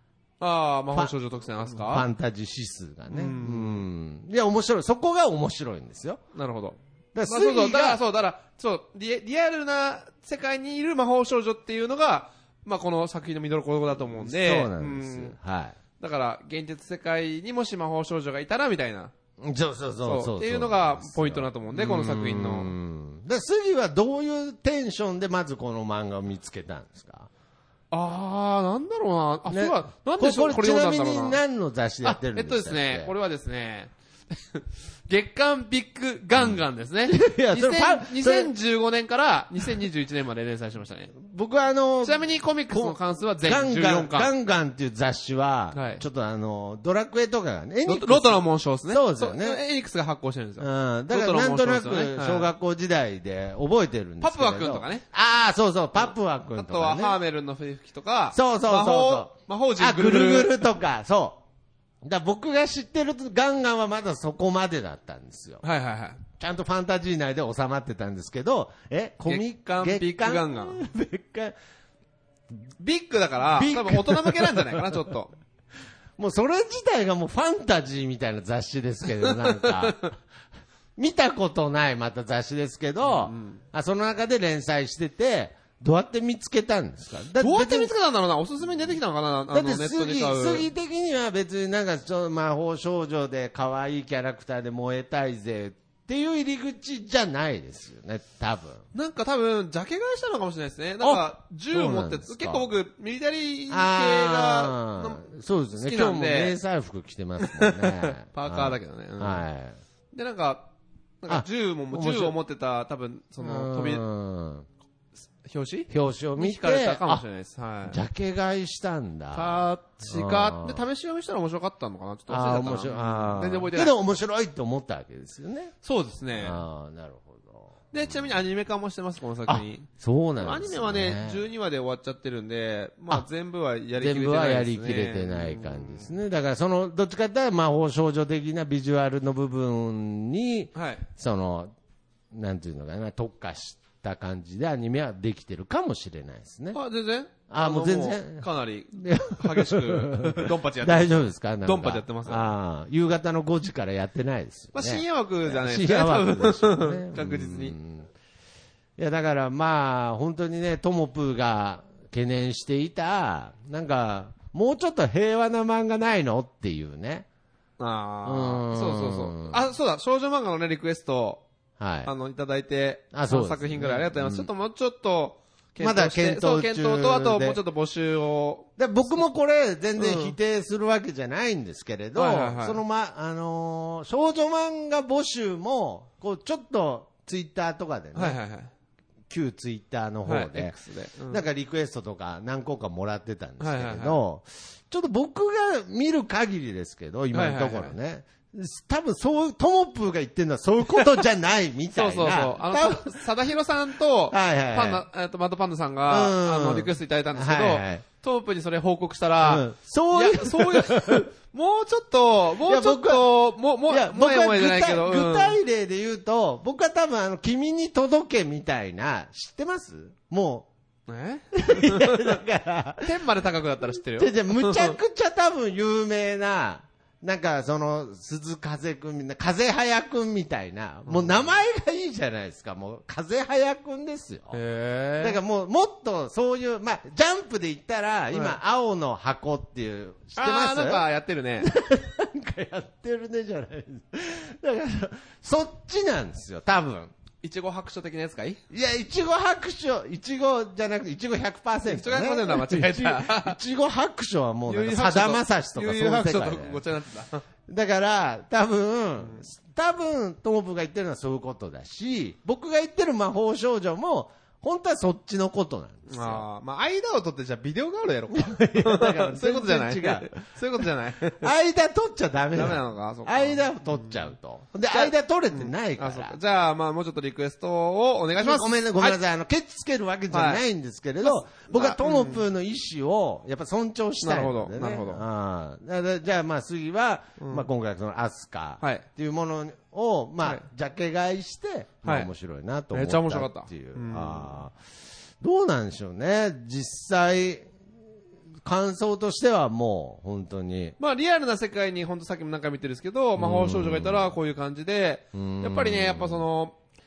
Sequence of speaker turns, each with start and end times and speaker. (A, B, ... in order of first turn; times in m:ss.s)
0:00.4-0:02.1 A
0:01.6-0:06.2 B
0:03.1-0:03.8 A
0:06.3-0:15.4 A
0:07.1-0:08.0 B
0:14.2-0:15.8 B
0:16.0-0:19.1 A
0:19.4-0:27.3 B
0:20.0-0:22.7 A
0:27.9-0:31.4 A
0:29.5-0:33.1 B
0:32.0-0:41.1 A
0:36.4-0:38.5 B
0:41.2-0:49.6 B
0:42.0-0:44.3 A
0:45.7-0:46.0 A
0:47.8-0:52.5 A
0:50.6-0:57.2 B
0:54.2-0:55.0 A
0:56.6-1:00.6 A
0:58.3-1:01.4 B
1:02.0-1:05.6 B
1:05.6-1:06.2 A
1:06.4-1:11.5 B
1:09.3-1:10.8 A
1:12.8-1:15.3 A
1:13.5-1:15.0 B
1:16.2-1:20.2 B
1:19.2-1:20.0 A
1:21.0-1:27.9 B
1:23.0-1:23.6 A
1:27.4-1:30.7 A
1:29.5-1:38.8 B
1:38.9-1:46.6 A
1:41.0-1:42.6 B
1:43.7-1:49.8 B
1:47.4-1:49.4 A
1:50.1-1:50.7 A
1:51.2-1:54.0 A
1:51.3-1:52.4 B
1:53.4-1:54.7 B
1:55.4-1:58.0 A
1:55.9-1:57.2 B
1:57.8-2:00.8 B
1:59.3-2:03.9 A
2:02.3-2:05.7 B
2:05.8-2:06.6 A
2:06.4-2:08.3 B
2:07.9-2:16.1 A
2:09.5-2:11.4 B
2:14.0-2:21.7 B
2:20.7-2:21.1 A
2:22.3-2:26.8 B
2:26.7-2:32.5 A
2:27.5-2:38.1 B
2:34.7-2:37.7 A
2:39.0-2:47.2 B
2:47.8-2:51.4 A
2:48.2-2:49.6 B
2:51.8-2:52.1 B
2:52.0-2:59.2 A
2:53.1-2:54.5 B
2:55.8-2:57.6 B
2:58.8-3:08.4 B
3:00.0-3:00.4 A
3:02.1-3:02.8 A
3:08.1-3:08.7 A
3:09.3-3:10.8 B
3:10.2-3:11.4 A
3:11.3-3:23.2 B
3:13.6-3:14.2 A
3:17.3-3:17.9 A
3:21.9-3:35.6 A
3:24.3-3:25.0 B
3:26.1-3:28.0 B
3:29.4-3:31.3 B
3:32.6-3:33.3 B
3:33.9-3:40.7 B
3:41.1-3:42.4 A
3:41.5-3:43.1 B
3:43.0-3:45.0 A
3:44.1-3:54.6 B
3:51.1-3:51.4 A
3:54.5-3:55.4 A
3:55.2-4:01.0 B
4:00.4-4:01.7 A
4:01.6-4:07.1 B
4:07.4-4:08.6 A
4:08.7-4:16.8 B
4:11.8-4:13.6 A
4:14.7-4:17.4 A
4:17.7-4:26.4 B
4:26.1-4:31.5 A
4:28.3-4:30.4 B
4:31.4-4:36.4 B
4:32.5-4:34.2 A
4:34.9-4:39.2 A
4:38.4-4:54.7 B
4:40.3-4:40.6 A
4:41.2-4:42.4 A
4:44.2-4:45.2 A
4:47.4-4:47.7 A
4:52.0-4:52.3 A
4:52.9-4:54.6 A
4:55.4-4:57.7 B
4:58.6-5:01.0 B
5:01.0-5:06.8 A
5:03.4-5:04.3 B
5:05.3-5:06.4 B